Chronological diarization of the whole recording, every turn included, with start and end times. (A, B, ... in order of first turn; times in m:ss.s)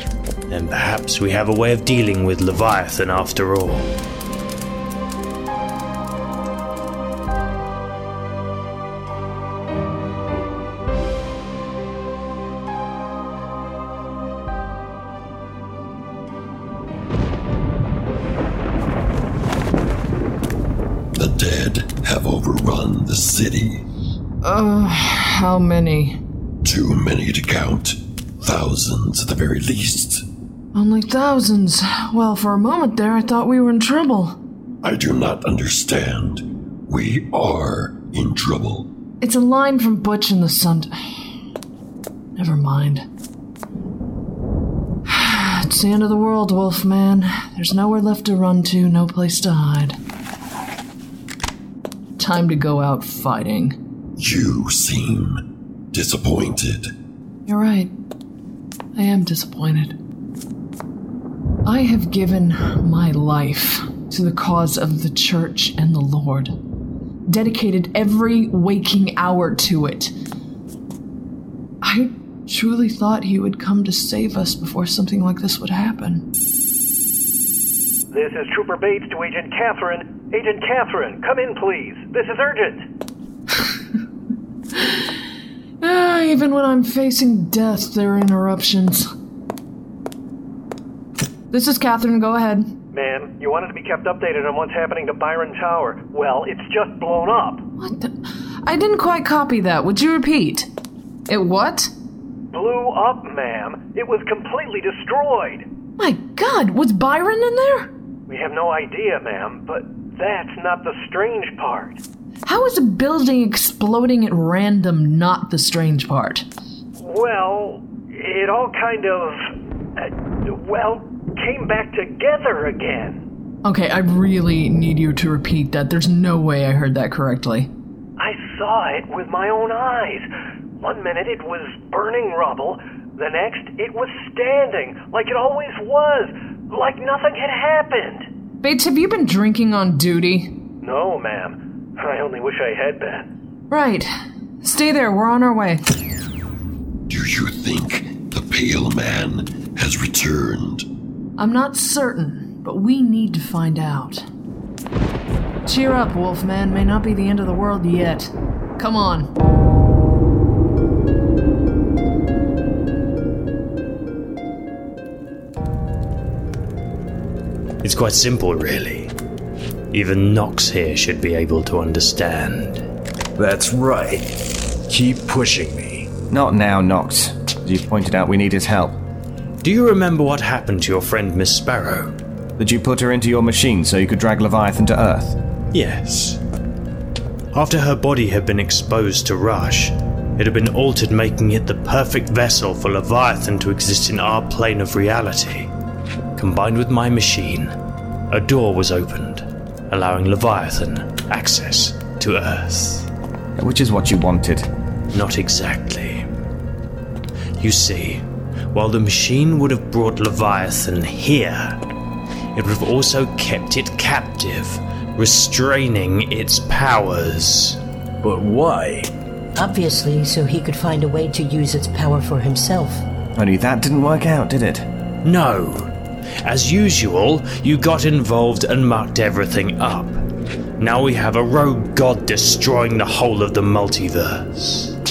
0:00.5-0:03.9 A
0:21.2-0:23.8 B
0:24.4-0:26.2 C
0:26.6-0:30.2 B
0:30.7-0:34.4 C
0:34.8-0:38.9 B
0:39.2-0:41.1 C
0:42.4-0:43.0 C
0:45.1-0:50.0 C
0:52.2-0:53.8 C
0:54.2-0:56.9 B
0:57.5-0:57.9 C
0:59.0-1:00.0 C
1:01.6-1:06.6 C
1:07.3-1:10.1 C
1:11.8-1:16.2 C
1:18.1-1:22.8 D
1:25.8-1:29.1 C
1:31.5-1:32.7 C
1:32.9-1:37.6 D
1:37.8-1:40.7 C
1:41.3-1:41.9 C
1:42.5-1:45.6 D
1:46.0-1:47.9 C
1:48.3-1:52.0 D
1:52.5-1:56.5 C
1:57.0-1:59.4 D
2:00.5-2:03.2 D
2:03.6-2:07.7 C
2:08.2-2:10.2 D
2:10.8-2:18.2 D
2:18.6-2:20.5 C
2:20.8-2:23.2 D
2:23.7-2:24.1 C
2:24.6-2:25.8 C
2:27.1-2:30.9 B
2:31.4-2:34.2 C
2:35.7-2:39.3 C
2:47.8-2:49.1 A
2:49.9-2:52.8 A
2:53.4-2:54.2 E
2:54.9-2:56.1 E
2:56.3-2:59.0 F
2:59.6-3:02.1 A
3:02.6-3:05.4 F
3:05.7-3:06.4 A
3:07.5-3:15.7 A
3:16.4-3:17.7 A
3:18.3-3:23.1 A
3:23.6-3:24.7 F
3:25.1-3:26.2 A
3:27.6-3:31.8 A
3:32.6-3:37.8 A
3:38.2-3:39.1 E
3:39.6-3:43.0 G
3:43.4-3:44.9 F
3:45.2-3:45.9 A
3:46.4-3:50.2 A
3:50.8-3:54.9 A